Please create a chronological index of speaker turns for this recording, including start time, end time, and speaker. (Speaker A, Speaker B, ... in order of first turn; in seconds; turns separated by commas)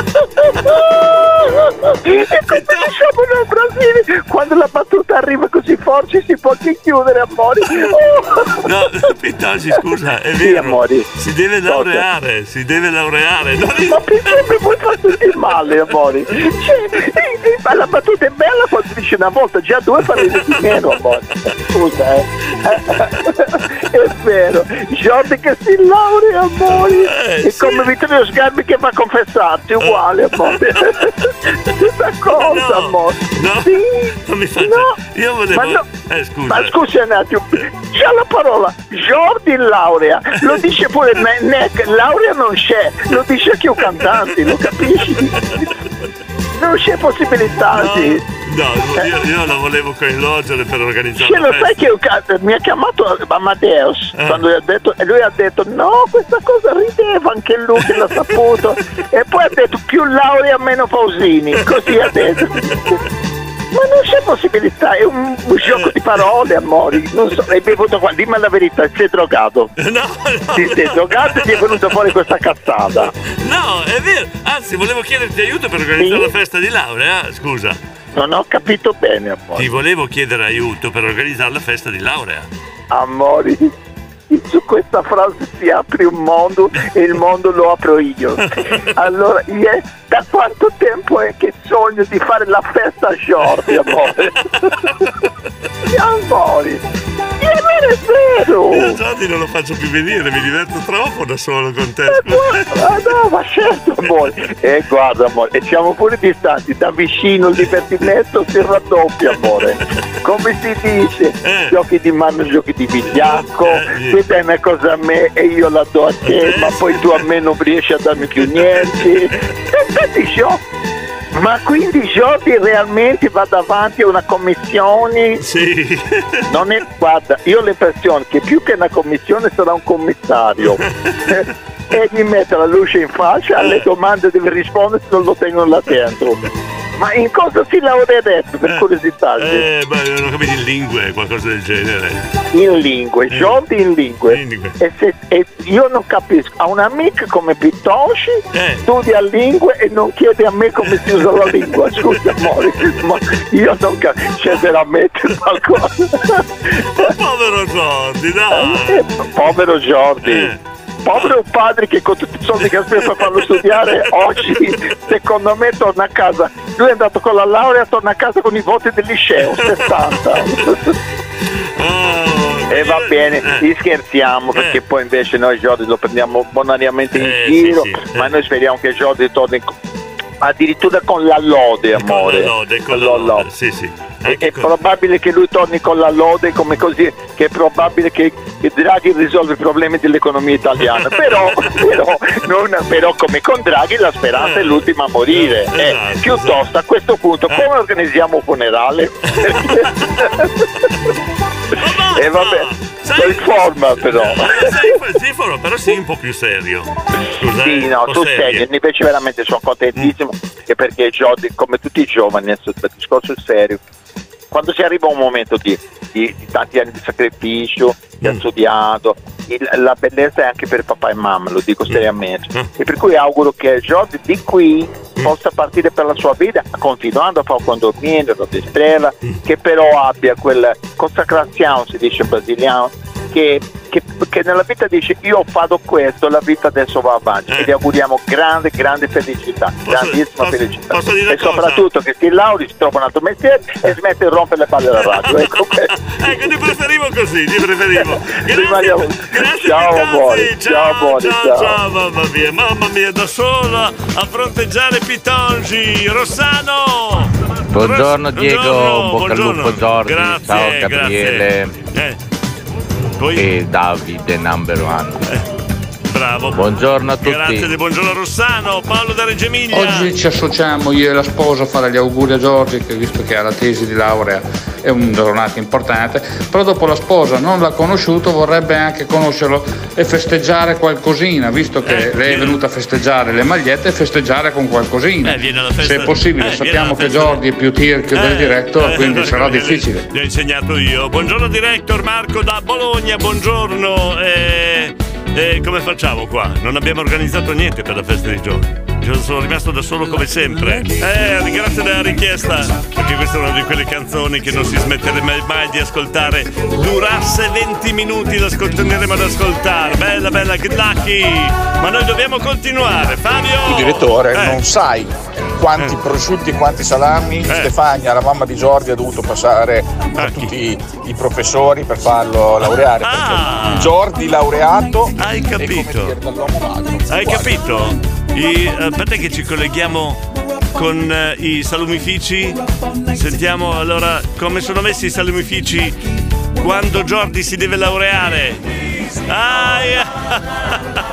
Speaker A: 0.6-8.7, Speaker B: 2.5-2.9, Speaker B: 8.6-14.4, Speaker A: 10.4-11.1, Speaker A: 11.7-12.1, Speaker A: 13.8-35.0, Speaker B: 20.1-20.9, Speaker B: 26.7-27.9, Speaker B: 29.8-31.0, Speaker B: 32.3-36.8, Speaker A: 35.5-35.8, Speaker A: 36.5-45.5, Speaker B: 43.9-45.7, Speaker A: 46.6-48.2, Speaker B: 47.7-51.7, Speaker A: 51.2-63.0, Speaker B: 61.8-62.8, Speaker A: 63.7-69.7, Speaker B: 69.8-71.9, Speaker A: 70.6-73.1, Speaker B: 73.3-77.8, Speaker A: 76.0-76.3, Speaker A: 78.2-79.8, Speaker B: 79.6-82.5, Speaker A: 82.9-83.7, Speaker A: 84.3-94.7, Speaker A: 95.9-96.8, Speaker A: 97.4-99.0, Speaker B: 98.7-102.6, Speaker A: 102.1-120.6, Speaker B: 111.4-111.7, Speaker B: 113.1-114.2, Speaker B: 116.2-117.2, Speaker B: 118.4-119.1, Speaker A: 121.3-125.4, Speaker B: 125.4-126.2, Speaker A: 126.5-136.4, Speaker A: 137.0-139.7, Speaker B: 139.4-142.2, Speaker A: 142.5-156.4, Speaker B: 144.3-144.8, Speaker B: 148.5-148.8, Speaker B: 150.9-151.3, Speaker B: 152.0-152.5, Speaker B: 156.9-159.1, Speaker A: 158.5-160.5, Speaker B: 160.2-160.6, Speaker A: 161.1-170.9, Speaker B: 162.6-164.6, Speaker B: 169.4-170.5, Speaker B: 171.8-173.6, Speaker A: 172.7-179.7, Speaker B: 177.2-178.3, Speaker A: 180.4-183.5, Speaker B: 181.9-184.7, Speaker A: 184.3-200.4, Speaker B: 190.8-191.8, Speaker B: 194.4-196.6, Speaker B: 199.5-200.1, Speaker B: 201.8-208.7, Speaker A: 202.1-205.0, Speaker A: 207.5-213.8, Speaker A: 214.5-245.9, Speaker B: 221.9-222.7, Speaker B: 239.8-241.9, Speaker B: 245.0-262.2, Speaker A: 248.0-251.8, Speaker C: 257.7-261.7, Speaker B: 263.2-263.5, Speaker C: 263.4-265.2, Speaker B: 266.1-270.1, Speaker C: 266.6-267.7, Speaker D: 269.7-290.1, Speaker B: 281.8-282.6, Speaker B: 285.2-287.4, Speaker B: 288.1-314.6, Speaker E: 313.6-327.6, Speaker B: 320.2-320.5, Speaker B: 322.6-323.9, Speaker B: 325.2-326.2, Speaker B: 327.1-332.6, Speaker B: 333.1-336.0, Speaker B: 336.6-341.0